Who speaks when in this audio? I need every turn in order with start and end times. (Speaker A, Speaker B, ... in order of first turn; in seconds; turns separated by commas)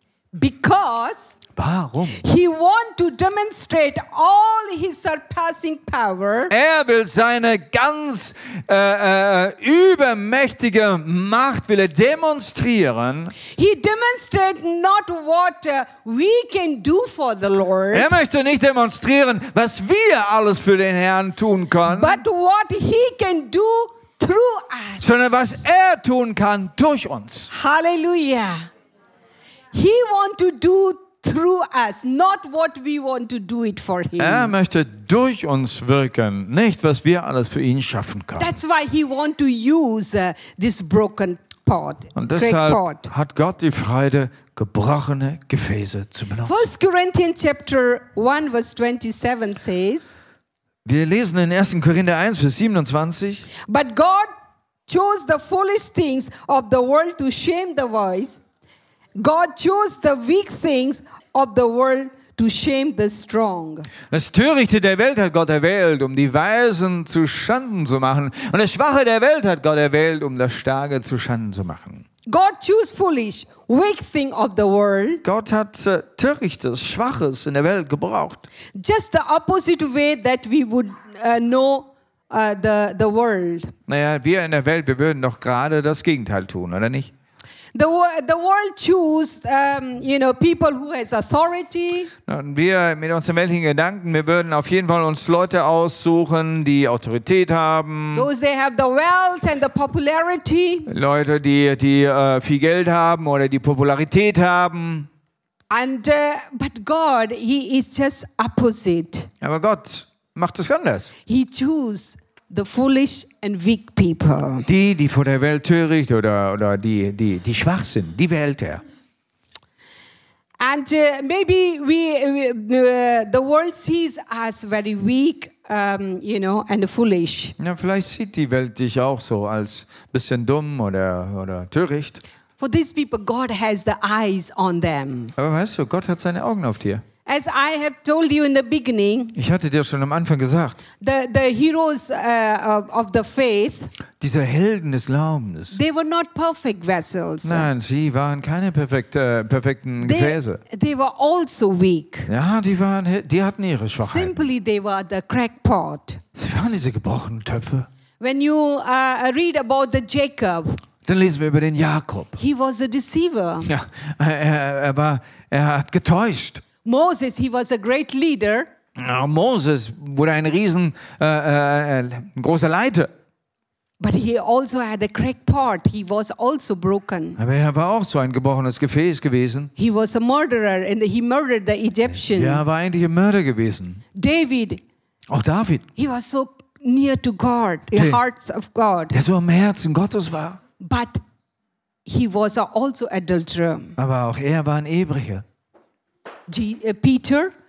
Speaker A: 0.3-1.4, Speaker B: 1.6-2.2, Speaker A: 2.1-6.5, Speaker B: 6.5-13.3, Speaker A: 13.5-18.1, Speaker B: 17.9-22.2, Speaker A: 21.9-25.6, Speaker B: 25.0-27.5, Speaker A: 27.5-28.6, Speaker A: 29.7-34.5, Speaker B: 34.2-38.5, Speaker A: 38.4-43.1, Speaker B: 42.1-46.7, Speaker A: 46.4-50.1, Speaker B: 50.8-53.5, Speaker A: 53.6-54.3, Speaker A: 54.9-58.4, Speaker A: 59.1-63.9, Speaker B: 64.1-72.0, Speaker A: 72.2-75.2, Speaker B: 75.2-78.4, Speaker A: 78.8-83.7, Speaker B: 83.9-87.1, Speaker A: 87.7-92.1, Speaker B: 92.2-98.3, Speaker A: 98.1-100.9, Speaker B: 100.8-105.1, Speaker A: 105.7-109.3, Speaker B: 109.4-111.1, Speaker A: 111.3-114.7, Speaker B: 114.7-118.8, Speaker A: 120.6-127.5, Speaker B: 127.6-132.2, Speaker A: 132.6-135.3, Speaker B: 135.3-137.0, Speaker A: 137.2-139.3, Speaker B: 139.3-140.8, Speaker A: 141.0-143.9, Speaker B: 144.2-145.8, Speaker A: 145.7-147.7, Speaker B: 147.4-150.6, Speaker A: 150.0-152.3, Speaker B: 152.3-154.4, Speaker A: 153.9-156.2, Speaker B: 156.3-157.9, Speaker A: 158.2-160.8, Speaker B: 161.0-162.3, Speaker A: 162.3-163.7, Speaker B: 163.7-166.6, Speaker A: 166.8-168.7, Speaker B: 168.9-173.1, Speaker A: 174.0-177.4, Speaker B: 177.4-179.7, Speaker A: 179.8-182.6, Speaker B: 182.3-184.0, Speaker A: 184.1-184.8, Speaker B: 185.3-185.9, Speaker A: 185.9-189.1, Speaker B: 187.9-188.2, Speaker B: 189.1-190.6, Speaker A: 190.8-191.2, Speaker A: 192.1-194.0, Speaker B: 194.0-195.4, Speaker A: 196.5-197.5